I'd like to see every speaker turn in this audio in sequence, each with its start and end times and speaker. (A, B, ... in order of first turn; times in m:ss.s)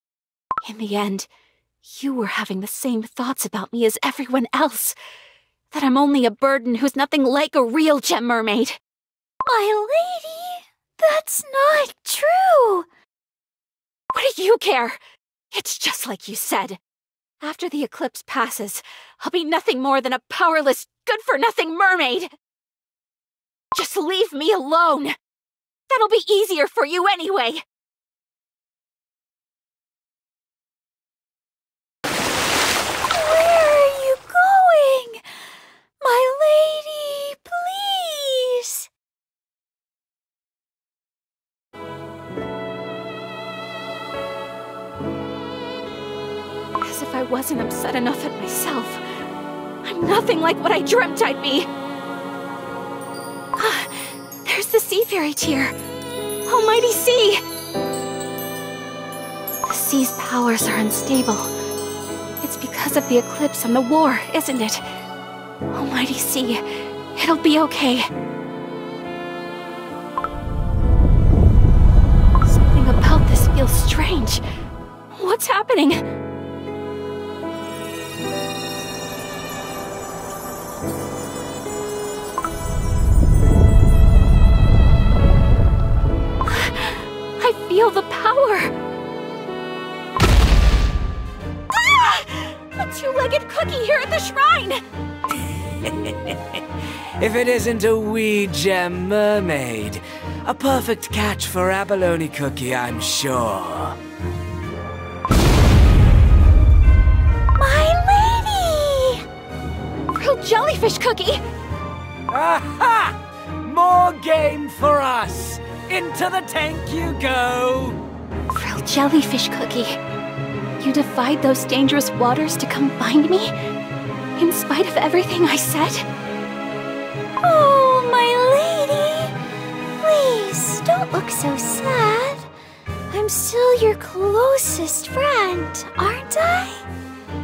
0:00.6-0:01.3 A
0:01.8-0:05.0 A
0:05.7-0:08.8 A
0:09.4-0:12.9 B
0:14.1-0:15.0 A
0:15.5-0:16.8 A
0:17.4-0:22.3 A
0:23.7-0:25.1 A
0:25.9-0:27.6 A
0:33.0-0:35.3 B
0:36.0-0:38.9 B
0:46.8-0:49.0 A
0:49.8-0:51.7 A
0:53.6-0:55.7 A
0:56.4-0:57.4 A
0:59.7-1:01.5 A
1:02.4-1:04.8 A
1:05.7-1:06.6 A
1:07.2-1:08.1 A
1:12.4-1:14.4 A
1:15.1-1:16.0 A
1:26.5-1:28.7 A
1:31.7-1:34.8 A
1:35.8-1:36.1 C
1:37.2-1:44.0 C
1:47.6-1:49.2 B
1:50.1-1:51.4 A
1:52.3-1:58.0 C
1:58.5-2:00.0 A
2:00.8-2:03.5 A
2:04.4-2:06.1 A
2:07.4-2:09.3 B
2:10.0-2:12.5 B
2:13.1-2:16.8 B